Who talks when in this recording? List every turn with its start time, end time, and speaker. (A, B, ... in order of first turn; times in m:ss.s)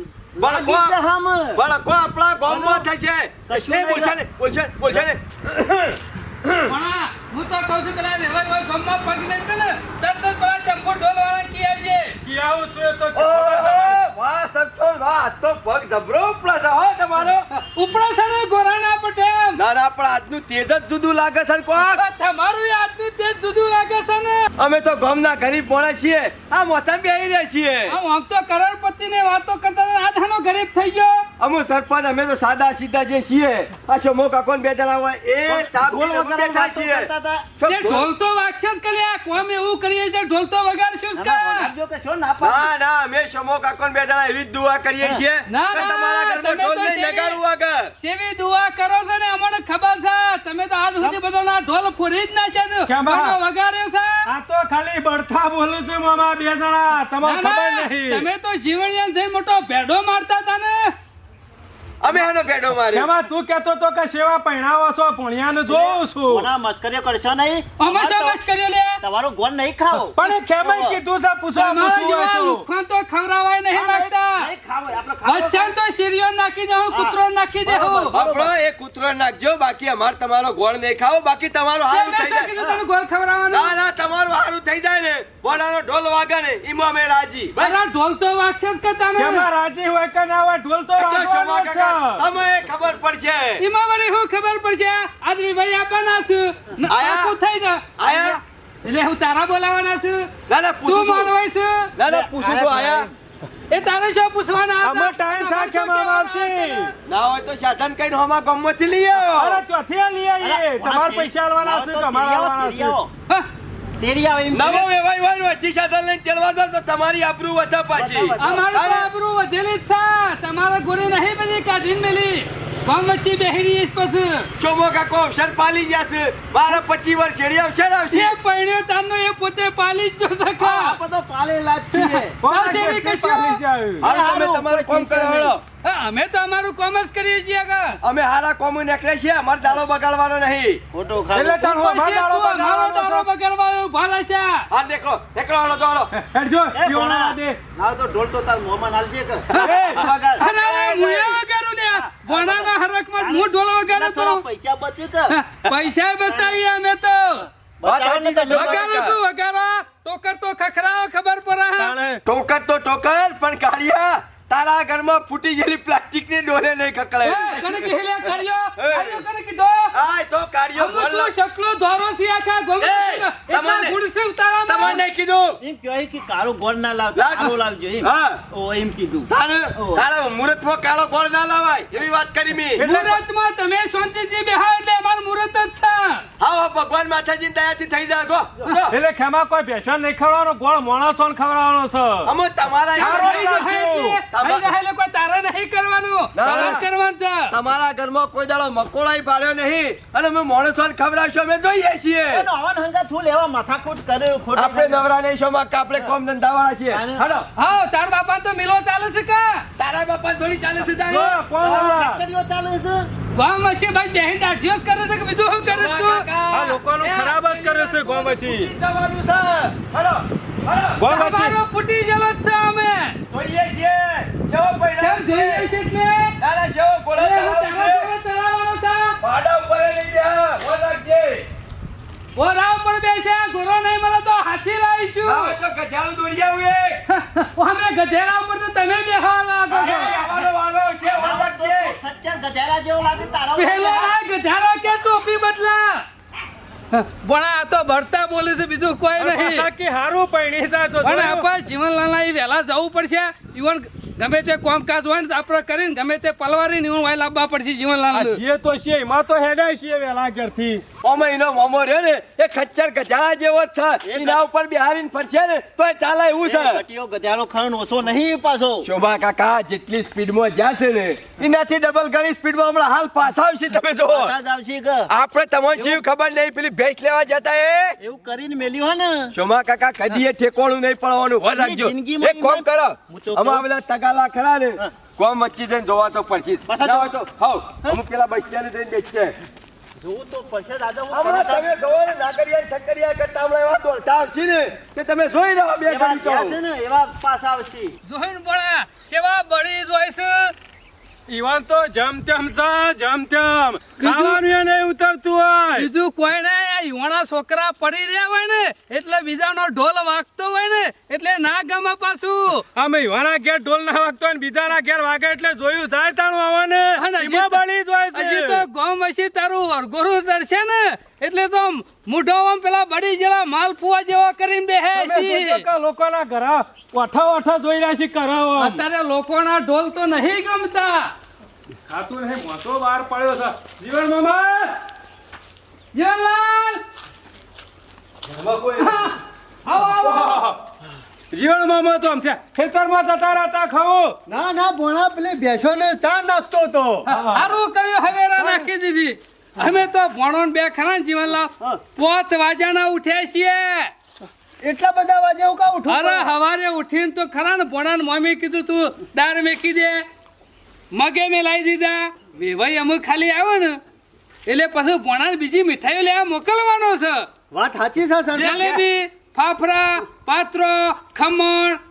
0:00.4-0:01.6 A
0:00.4-0:01.0 B
0:01.5-0:06.7 B
0:02.5-0:02.8 A
0:03.5-0:04.1 A
0:06.7-0:12.2 C
0:12.2-0:14.0 D
0:13.1-0:17.5 B
0:17.5-0:19.6 C
0:19.6-0:22.0 B
0:21.8-0:24.5 C
0:24.6-0:28.0 B
0:27.9-0:31.2 C
0:31.4-0:38.1 B
0:35.5-0:37.5 A
0:37.7-0:41.7 C
0:41.2-0:42.7 A
0:42.4-0:47.9 B
0:45.5-0:47.4 C
0:48.0-0:54.2 C
0:52.9-0:53.4 D
0:54.3-0:58.3 D
0:57.2-1:00.9 C
1:02.0-1:03.1 B
1:02.9-1:06.5 D
1:05.7-1:08.4 A
1:07.8-1:09.0 C
1:09.0-1:11.0 A
1:10.1-1:12.6 D
1:11.6-1:14.5 C
1:13.7-1:15.7 A
1:15.2-1:18.2 C
1:16.9-1:18.5 A
1:18.1-1:22.6 B
1:21.9-1:23.7 C
1:23.5-1:27.8 B
1:27.6-1:29.5 C
1:29.2-1:32.2 D
1:31.0-1:33.6 B
1:33.6-1:37.9 C
1:36.9-1:37.4 B
1:38.0-1:38.4 B
1:38.8-1:40.3 C
1:40.5-1:41.3 B
1:40.9-1:41.9 C
1:42.0-1:43.1 B
1:42.0-1:43.1 A
1:43.7-1:46.9 C
1:44.8-1:46.9 D
1:47.1-1:49.6 B
1:49.3-1:53.0 D
1:50.4-1:53.1 A
1:54.0-1:54.8 A
1:54.5-1:59.1 B
1:58.0-1:58.7 A
1:58.4-2:04.5 C
2:04.6-2:08.4 B
2:08.1-2:11.0 C
2:10.6-2:12.4 A
2:11.9-2:13.6 C
2:12.4-2:14.1 D
2:14.0-2:15.6 B
2:14.0-2:15.5 A
2:15.8-2:18.0 C
2:18.0-2:20.8 B
2:20.9-2:21.8 A
2:21.3-2:23.3 D
2:21.6-2:24.6 C
2:24.7-2:26.1 B
2:26.1-2:27.6 D
2:26.7-2:31.4 A
2:29.5-2:30.7 B
2:29.6-2:30.0 D
2:30.4-2:34.4 C
2:32.0-2:35.7 A
2:35.3-2:37.5 C
2:36.3-2:36.6 A
2:37.8-2:38.9 A
2:37.8-2:39.2 B
2:38.5-2:41.9 C
2:41.8-2:42.2 D
2:42.3-2:47.9 B
2:47.2-2:49.9 C
2:48.8-2:49.2 B
2:49.9-2:51.3 B
2:50.8-2:55.0 C
2:52.8-2:54.0 B
2:54.7-2:55.6 B
2:55.6-3:00.0 A
2:57.1-2:58.4 B
2:59.3-3:02.8 B
3:02.8-3:03.2 D
3:02.8-3:06.2 C
3:06.4-3:09.0 B
3:08.9-3:12.3 D
3:12.2-3:13.5 B
3:13.0-3:14.2 D
3:13.0-3:17.5 C
3:14.3-3:14.7 B
3:16.4-3:16.8 B
3:17.5-3:22.5 B
3:22.3-3:25.0 A
3:24.6-3:27.5 B
3:26.9-3:27.2 A
3:27.6-3:29.6 C
3:29.8-3:31.4 B
3:31.1-3:32.2 D
3:31.6-3:33.1 A
3:33.4-3:36.3 C
3:35.6-3:41.0 B
3:36.5-3:38.7 D
3:41.0-3:41.6 D
3:41.1-3:43.2 C
3:43.3-3:45.7 B
3:45.0-3:46.4 C
3:46.4-3:48.1 B
3:47.2-3:49.2 C
3:49.2-3:51.4 B
3:52.4-3:55.6 C
3:55.2-3:57.0 B
3:57.1-4:00.2 C
3:59.7-4:02.0 B
4:01.1-4:04.2 A
4:03.6-4:06.0 C
4:06.9-4:09.7 C
4:09.2-4:11.5 D
4:11.0-4:18.4 C
4:18.1-4:20.8 D
4:21.0-4:26.8 B
4:24.0-4:24.4 A
4:26.4-4:28.9 A
4:28.8-4:34.4 B
4:34.0-4:35.1 A
4:35.1-4:38.0 B
4:38.0-4:39.3 A
4:39.3-4:49.4 B
4:41.5-4:43.6 A
4:46.7-4:47.1 A
4:50.0-4:51.7 A
4:51.1-4:56.6 B
4:55.9-4:57.9 A
4:58.0-5:00.5 C
5:01.3-5:05.9 D
5:04.0-5:04.4 C
5:05.8-5:12.6 C
5:12.8-5:18.7 D
5:17.0-5:25.7 C
5:25.0-5:28.8 D
5:28.6-5:31.1 C
5:31.9-5:34.8 D
5:35.9-5:36.8 C
5:38.3-5:39.1 D
5:38.8-5:40.4 C
5:39.9-5:40.6 D
5:41.3-5:44.2 D
5:44.3-5:47.1 E
5:47.1-5:53.9 C
5:47.1-5:47.6 D
5:48.4-5:48.7 E
5:54.6-5:56.3 E
5:55.9-6:00.0 C
6:00.9-6:03.8 C
6:04.5-6:07.3 C
6:07.5-6:08.8 E
6:08.4-6:11.8 C
6:08.4-6:08.8 D